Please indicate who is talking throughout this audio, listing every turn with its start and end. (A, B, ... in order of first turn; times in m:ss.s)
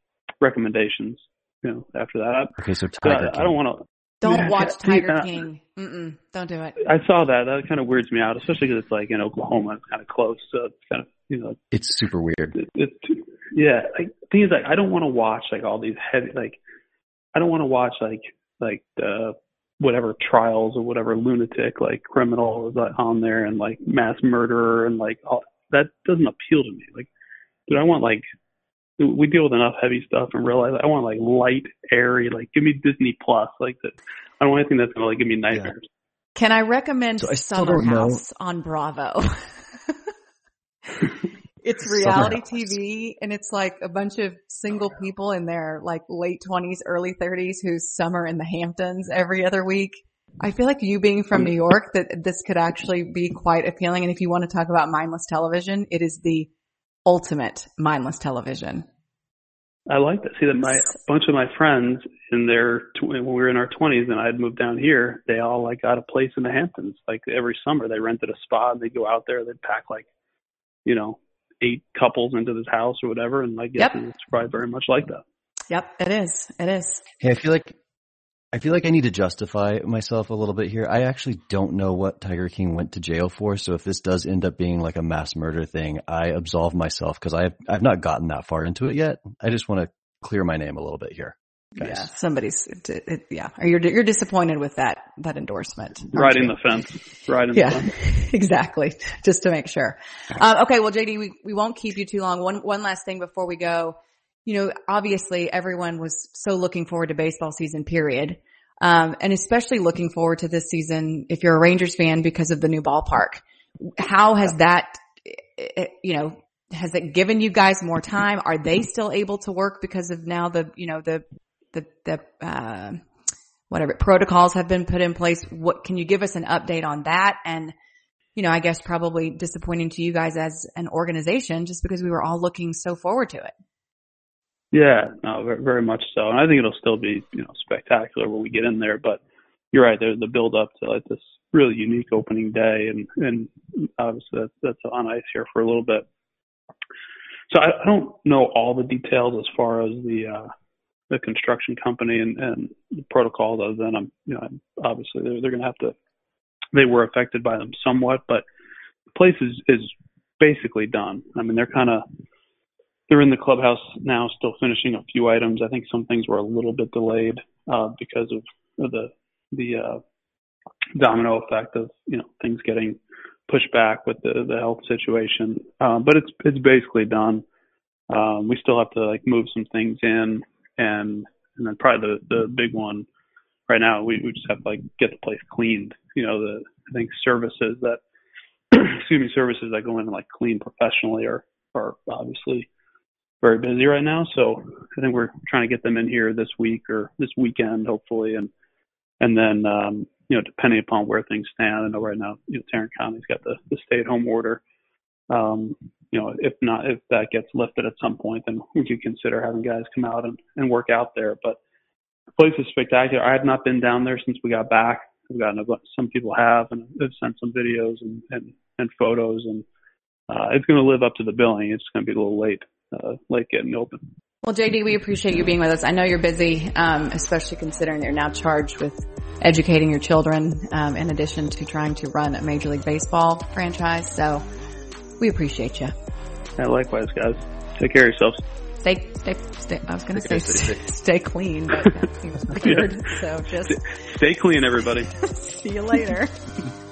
0:00.4-0:05.4 A
0:02.6-0:03.6 B
0:04.2-0:06.8 C
0:06.8-0:11.6 A
0:11.7-0:12.6 B
0:12.6-0:16.6 A
0:17.3-0:27.1 A
0:27.7-0:28.2 A
0:29.0-0:35.8 A
0:36.3-0:39.9 C
0:37.2-0:38.2 B
0:41.6-0:56.5 C
0:42.0-0:42.6 B
0:57.0-0:58.8 C
0:59.9-1:10.1 A
1:10.8-1:15.2 A
1:15.7-1:17.0 C
1:17.2-1:17.8 B
1:18.5-1:32.1 B
1:31.8-1:36.6 C
1:36.1-1:37.9 A
1:37.5-2:03.0 C
2:03.7-2:07.7 C
2:08.4-2:13.5 C
2:14.7-2:19.2 A
2:19.7-2:26.0 A
2:27.5-2:30.5 A
2:31.1-2:35.9 A
2:36.7-2:38.4 A
2:39.1-2:42.0 A
2:43.1-2:50.0 A
2:50.9-2:57.4 A
2:58.1-3:03.0 A
3:03.7-3:08.0 A
3:08.7-3:12.7 A
3:13.4-3:18.5 A
3:19.2-3:24.6 A
3:25.3-3:31.6 A
3:32.4-3:39.6 A
3:40.3-3:44.0 A
3:44.4-3:54.4 C
3:55.2-3:55.9 C
3:56.6-3:58.4 A
3:58.8-4:03.8 C
4:00.2-4:00.8 B
4:03.7-4:05.1 A
4:05.2-4:06.3 C